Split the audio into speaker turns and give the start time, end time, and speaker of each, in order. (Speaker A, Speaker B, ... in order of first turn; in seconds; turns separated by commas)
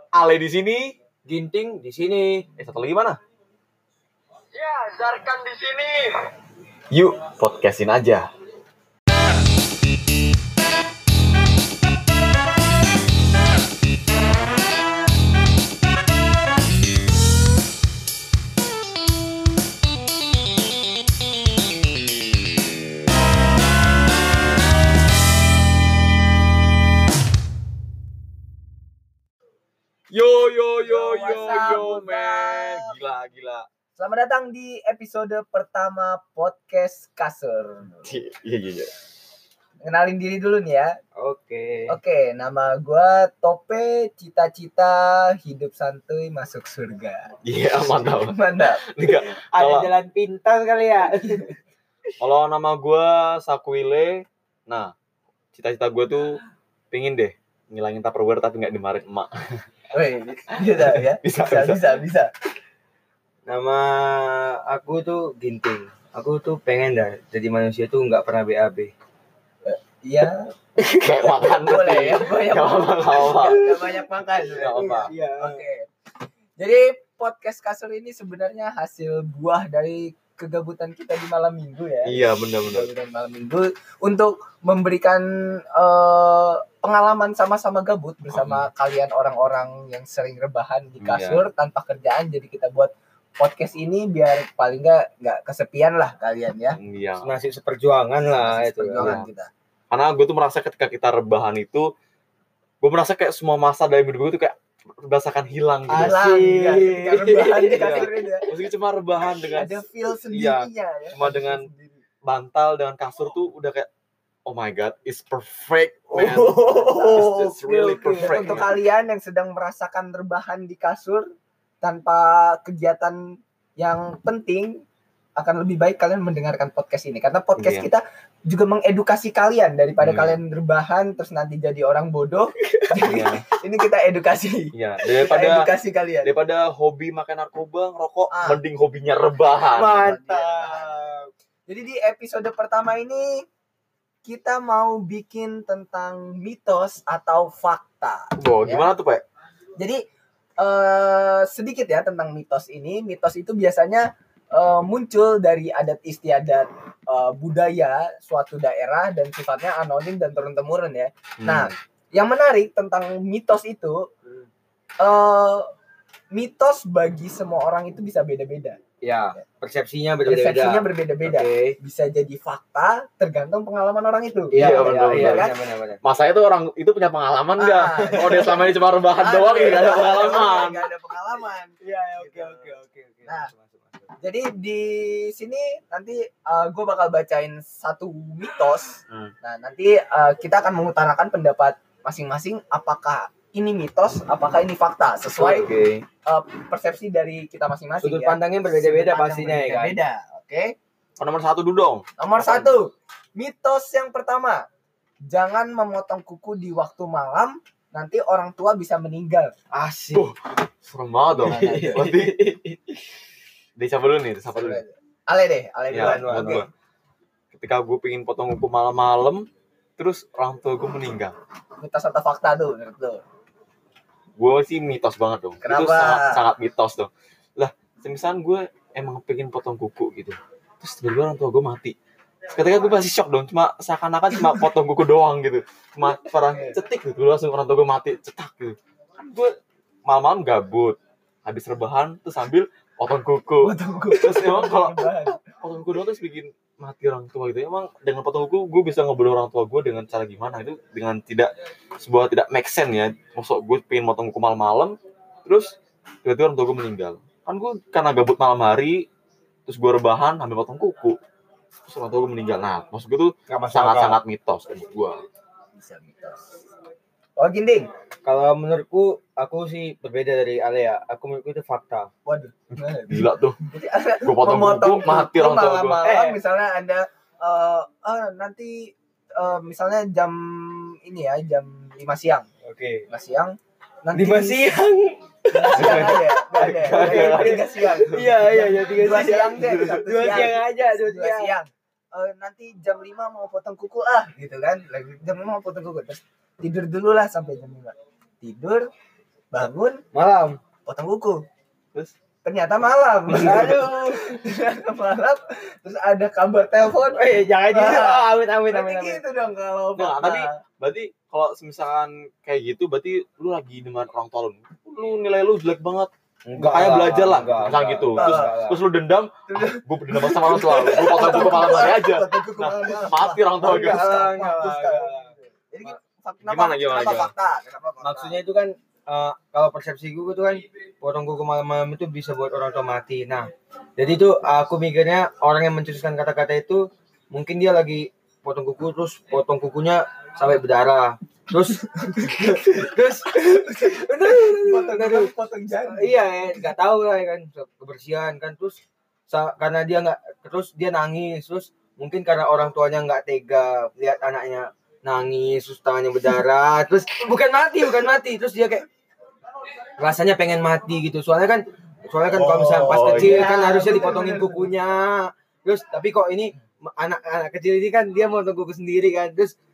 Speaker A: 0.1-1.0, Speaker B: 1.3-2.5, Speaker A: 2.6-3.2, Speaker B: 4.5-6.2, Speaker A: 6.9-8.3, Speaker A: 30.1-33.7, Speaker C: 30.8-32.9, Speaker C: 34.0-38.1, Speaker A: 38.0-38.9, Speaker C: 39.8-41.0, Speaker B: 41.2-42.0, Speaker C: 41.9-47.3, Speaker A: 47.5-49.9, Speaker C: 48.0-48.8, Speaker B: 49.5-51.5, Speaker C: 51.2-51.5, Speaker A: 52.2-54.9, Speaker A: 55.5-56.4, Speaker A: 56.9-59.6, Speaker C: 59.9-62.3, Speaker A: 60.6-61.8, Speaker B: 63.5-68.9, Speaker C: 69.6-70.5, Speaker A: 70.8-73.6, Speaker C: 71.5-75.9, Speaker A: 74.5-75.1, Speaker B: 74.7-75.6, Speaker C: 76.6-96.8, Speaker A: 82.0-82.9, Speaker A: 88.3-88.7, Speaker A: 91.0-91.5, Speaker A: 96.7-97.3, Speaker B: 97.2-99.2, Speaker C: 98.3-99.5, Speaker A: 99.0-99.3, Speaker A: 99.9-101.9, Speaker A: 102.8-106.2, Speaker B: 105.9-108.2, Speaker C: 105.9-108.5, Speaker A: 107.7-111.6, Speaker C: 109.5-112.0, Speaker A: 112.2-113.9, Speaker A: 114.5-118.8, Speaker C: 116.1-117.6, Speaker B: 117.6-118.6, Speaker C: 118.2-121.3, Speaker C: 121.8-124.8, Speaker C: 125.3-136.3, Speaker A: 127.6-127.9, Speaker A: 130.0-130.4, Speaker A: 133.0-133.4, Speaker A: 134.7-135.7, Speaker A: 136.2-140.1, Speaker C: 138.3-138.6, Speaker B: 139.7-141.3, Speaker C: 140.0-141.0, Speaker C: 141.7-143.4, Speaker C: 144.2-148.9, Speaker A: 148.3-149.2, Speaker C: 150.6-164.1, Speaker A: 161.4-161.7, Speaker C: 165.0-165.7, Speaker C: 166.3-168.8, Speaker B: 169.0-171.8, Speaker C: 170.2-175.5, Speaker B: 174.5-176.0, Speaker A: 174.5-180.8, Speaker C: 177.6-182.7, Speaker B: 178.0-178.4, Speaker B: 181.8-184.1, Speaker C: 183.2-183.5, Speaker C: 184.2-195.7, Speaker A: 189.1-189.3, Speaker B: 195.3-196.0, Speaker C: 196.2-200.7, Speaker B: 198.0-200.0, Speaker A: 201.2-202.8, Speaker C: 202.2-204.7, Speaker C: 205.2-209.5, Speaker B: 209.7-210.2, Speaker A: 210.1-212.8, Speaker C: 211.4-212.1, Speaker B: 211.4-212.3, Speaker A: 213.8-214.8, Speaker C: 214.5-216.7, Speaker A: 215.9-216.7, Speaker B: 215.9-216.6, Speaker A: 217.5-219.4, Speaker A: 220.0-221.3, Speaker C: 221.8-223.2, Speaker A: 224.4-232.0, Speaker C: 225.6-226.4, Speaker A: 232.5-239.5, Speaker A: 240.1-259.1, Speaker C: 243.6-245.4, Speaker A: 259.7-261.2, Speaker A: 261.9-265.2, Speaker B: 263.5-264.2, Speaker C: 265.8-266.6, Speaker C: 267.4-267.9, Speaker B: 268.2-272.1, Speaker C: 272.3-282.5, Speaker A: 272.8-273.6, Speaker A: 274.2-276.0, Speaker B: 276.0-276.4, Speaker B: 282.6-283.1, Speaker C: 283.1-284.8, Speaker B: 284.1-291.5, Speaker C: 285.5-298.9, Speaker A: 285.7-288.3, Speaker C: 299.5-300.0, Speaker B: 300.1-300.6, Speaker C: 300.9-301.4, Speaker C: 302.4-310.6, Speaker A: 303.3-303.7, Speaker B: 303.4-304.2, Speaker B: 307.2-309.2, Speaker A: 310.0-324.1, Speaker B: 316.5-318.8, Speaker C: 318.2-318.5, Speaker C: 319.5-328.4, Speaker B: 323.6-325.3, Speaker A: 326.4-327.3, Speaker B: 328.0-345.3, Speaker C: 342.0-342.8, Speaker C: 343.4-346.3, Speaker B: 345.9-358.9, Speaker B: 360.0-369.6, Speaker C: 362.3-364.7, Speaker A: 362.6-363.5